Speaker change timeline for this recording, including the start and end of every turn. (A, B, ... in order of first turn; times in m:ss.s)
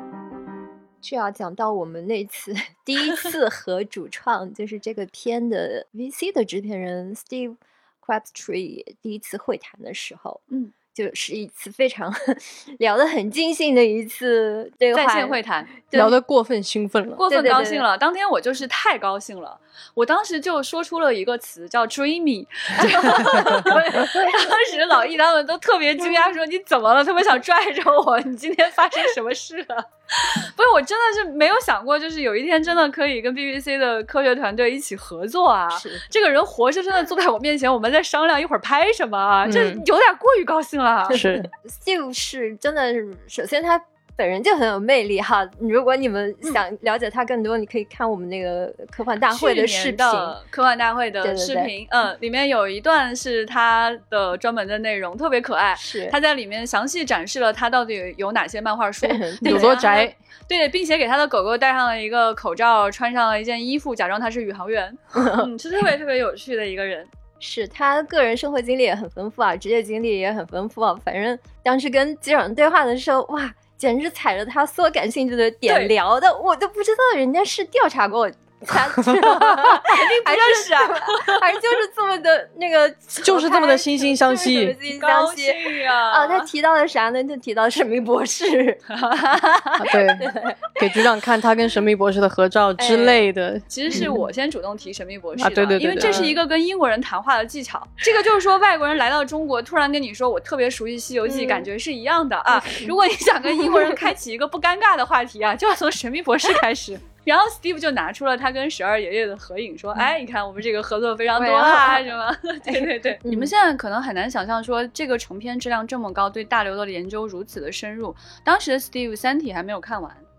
0:01.0-0:10.4 A
0:10.9-0:16.1 A
0:14.9-0:15.7 B
0:15.9-0:17.2 C
0:17.2-0:41.2 B
0:17.3-0:17.8 A
0:22.8-0:24.4 A
0:35.7-0:36.0 A
0:39.4-0:39.8 C
0:41.1-0:41.5 C
0:41.1-0:50.4 A
0:49.3-1:07.1 B
0:51.2-0:51.7 A
0:55.8-0:56.1 A
0:59.0-0:59.8 A
0:59.4-1:00.1 C
1:05.1-1:05.5 A
1:07.4-1:28.8 A
1:15.6-1:15.9 B
1:19.3-1:21.4 B
1:23.2-1:24.8 C
1:24.9-1:26.5 B
1:28.9-1:29.9 B
1:29.8-1:34.1 C
1:29.9-1:31.1 A
1:32.8-1:33.2 A
1:33.7-2:00.2 B
1:33.9-1:34.2 A
1:35.4-1:36.4 C
1:36.0-1:36.4 A
1:41.3-1:41.6 A
1:42.6-1:42.9 A
1:43.6-1:43.9 A
1:51.3-1:52.1 A
1:52.7-1:53.5 A